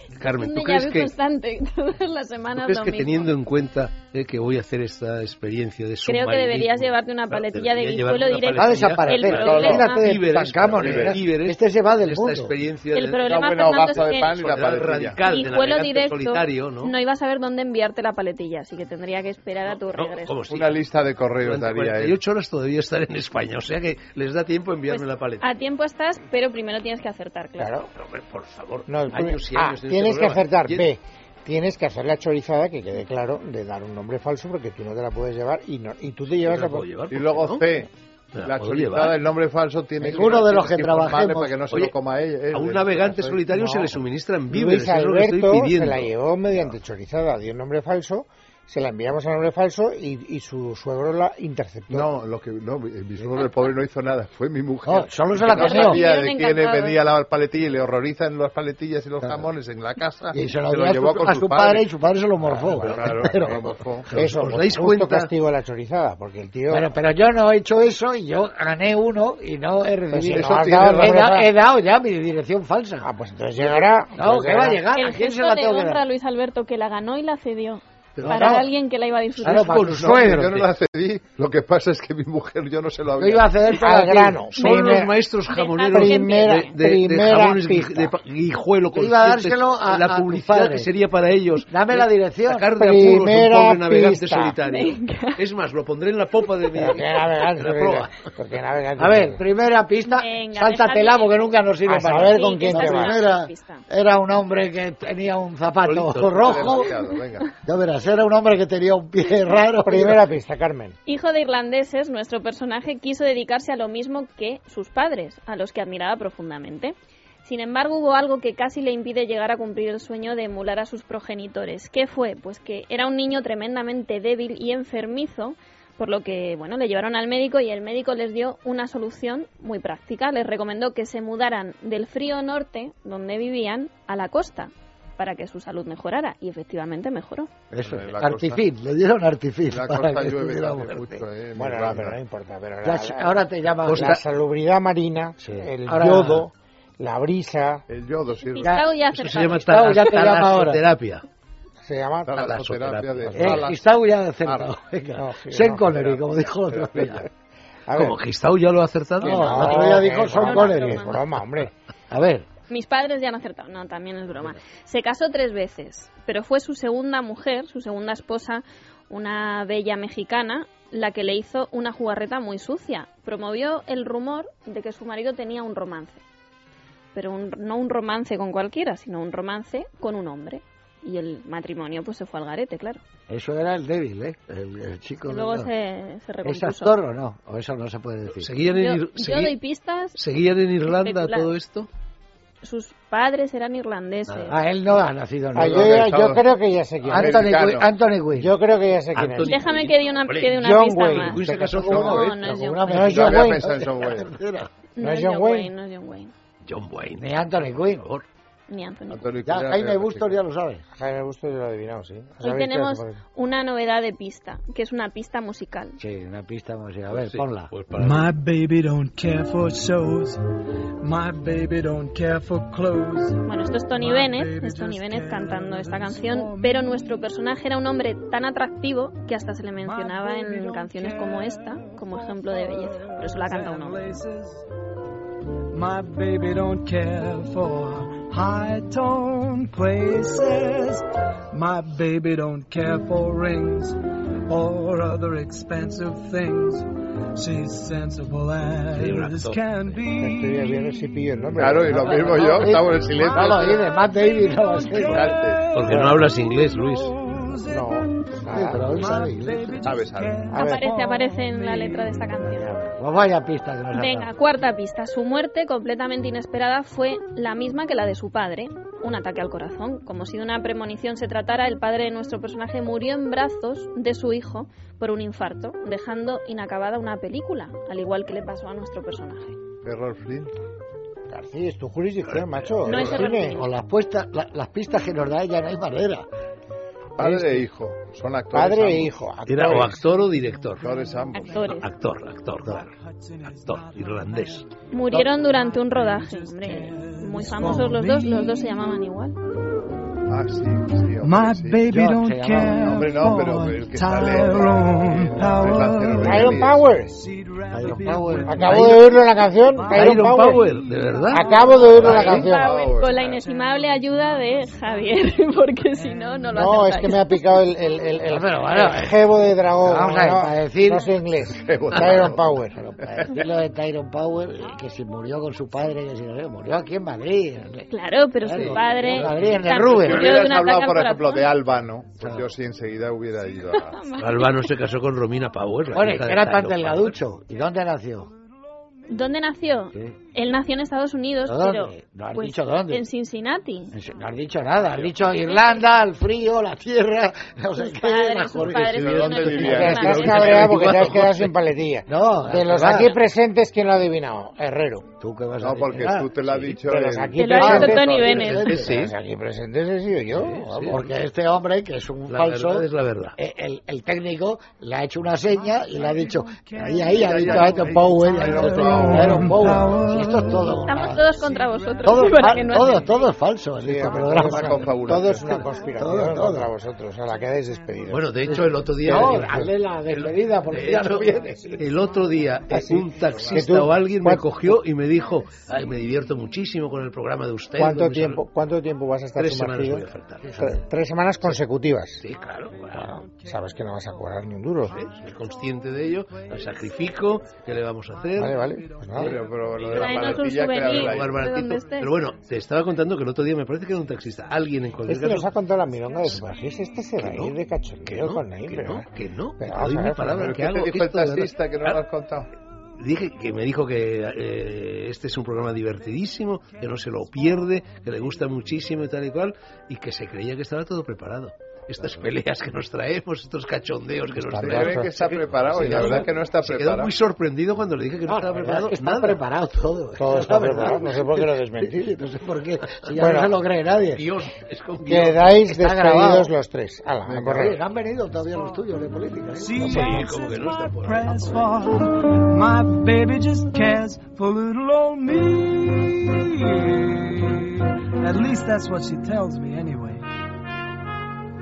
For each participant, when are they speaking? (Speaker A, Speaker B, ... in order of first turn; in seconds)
Speaker A: 0.2-1.1, 2.5-13.2, 13.9-16.9, 19.7-20.8, 21.4-25.4, 27.9-30.9, 36.4-37.7, 38.3-39.2, 41.7-42.0, 42.5-46.1, 64.1-65.3, 79.4-80.7, 84.5-98.3, 105.8-106.6, 143.9-144.2, 149.1-151.2, 152.3-153.7, 157.9-160.1, 188.2-189.5, 190.2-191.9, 199.2-203.0, 206.6-208.2, 217.1-218.3, 248.9-250.0, 255.7-257.1, 282.3-283.3, 289.5-290.9, 291.6-292.9, 293.4-294.7, 308.6-309.0, 309.9-312.5, 329.3-329.6, 334.2-337.2, 348.6-351.5, 358.7-359.1, 360.3-361.1, 362.3-363.4, 378.1-388.5, 389.4-390.5, 392.2-393.1, 394.9-398.6, 399.9-400.2, 400.9-405.5, 407.2-412.0, 413.0-429.4, 434.1-435.6, 437.5-437.8, 439.8-441.9
Speaker B: 0.3-3.3, 6.0-10.1, 12.9-14.3, 15.2-20.3, 24.9-27.8, 55.5-57.0, 74.9-79.9, 84.6-86.7, 94.7-95.4, 100.0-101.5, 102.2-103.8, 111.0-137.5, 148.4-150.3, 159.3-161.3, 162.7-176.2, 177.1-183.0, 185.2-187.0, 188.7-190.2, 190.8-191.5, 192.6-194.6, 199.5-203.0, 204.9-206.3, 208.7-209.3, 212.4-216.0, 223.5-234.2, 260.5-262.7, 263.9-279.6, 282.9-283.7, 291.4-291.9, 294.9-299.4, 312.3-317.6, 327.9-331.5, 333.7-334.7, 339.1-344.0, 345.5-345.8, 347.8-350.6, 357.4-358.7, 370.9-373.1, 399.9-402.1
Speaker C: 8.5-12.5, 40.0-41.6, 54.8-56.0, 60.3-64.1, 66.7-73.1, 74.2-76.0, 78.2-78.7, 79.4-80.6, 83.2-84.5, 88.9-90.9, 91.7-92.7, 99.0-107.0, 107.6-110.2, 137.7-141.2, 142.8-144.2, 145.4-146.5, 149.5-150.8, 153.3-157.3, 159.2-161.2, 162.1-162.5, 183.3-185.7, 186.4-188.5, 194.3-196.0, 197.0-198.5, 201.7-204.7, 207.2-208.1, 209.5-210.8, 216.0-217.7, 251.9-255.3, 258.5-259.9, 262.5-264.3, 283.1-286.3, 287.2-287.6, 301.9-303.0, 307.7-309.0, 318.3-321.1, 322.0-327.9, 328.4-330.4, 332.2-332.5, 335.9-338.3, 341.5-343.0, 343.9-349.6, 352.1-353.2, 355.2-356.8, 357.6-359.0, 360.9-376.7, 378.4-381.9, 390.4-390.9, 425.8-426.3, 428.3-434.3, 435.6-436.5, 437.3-439.9
Speaker D: 9.5-9.8, 10.7-11.2, 13.2-15.2, 20.4-22.2, 37.1-43.5, 51.9-61.9, 62.6-64.1, 70.3-71.2, 73.5-73.9, 79.8-83.5, 106.3-107.5, 137.8-138.7, 139.7-142.2, 147.9-148.8, 152.2-153.8, 154.4-154.7, 155.9-157.2, 195.6-196.4, 197.1-197.9, 201.9-202.3, 203.0-204.4, 209.1-210.3, 251.5-253.8, 255.1-255.6, 259.8-260.4, 279.8-280.5, 287.2-289.9, 290.8-291.8, 300.3-301.9, 302.8-306.8, 311.7-313.4, 321.5-322.5, 329.1-334.1, 348.7-351.1, 355.6-358.9, 367.2-369.5, 374.3-375.7, 383.2-383.7, 399.3-401.9, 410.2-412.5, 424.6-427.1
Speaker E: 27.6-27.9, 28.9-37.0, 43.5-52.1, 62.4-63.5, 64.1-66.9, 70.1-71.5, 73.0-74.8, 83.7-85.1, 85.9-88.1, 92.8-94.6, 96.8-99.4, 101.8-103.2, 109.8-110.9, 141.5-147.8, 151.8-152.4, 155.2-155.9, 157.9-158.2, 159.2-161.7, 195.5-197.3, 198.3-199.6, 200.6-202.1, 202.8-203.8, 205.0-205.7, 211.0-213.2, 250.2-252.3, 255.8-256.2, 257.6-259.1, 260.4-260.8, 281.3-283.6, 288.5-290.1, 306.2-307.1, 308.4-310.7, 311.3-312.8, 316.5-322.8, 349.6-355.1, 356.8-358.1, 358.7-361.1, 373.8-378.3, 379.0-379.7, 382.7-384.8, 387.8-392.2, 392.9-395.0, 398.4-399.4, 405.1-409.1, 409.6-410.4, 424.4-425.3, 430.2-432.0, 433.1-433.6, 435.0-437.8, 439.9-440.2
Speaker F: 217.9-220.4, 221.0-227.1, 229.8-234.7, 235.7-251.1, 253.2-253.6, 254.8-262.4, 290.9-291.6, 292.6-298.9, 301.2-312.5, 313.3-316.9, 365.5-373.2, 392.7-394.3, 394.9-395.4, 396.7-397.0, 398.3-400.8, 439.6-450.3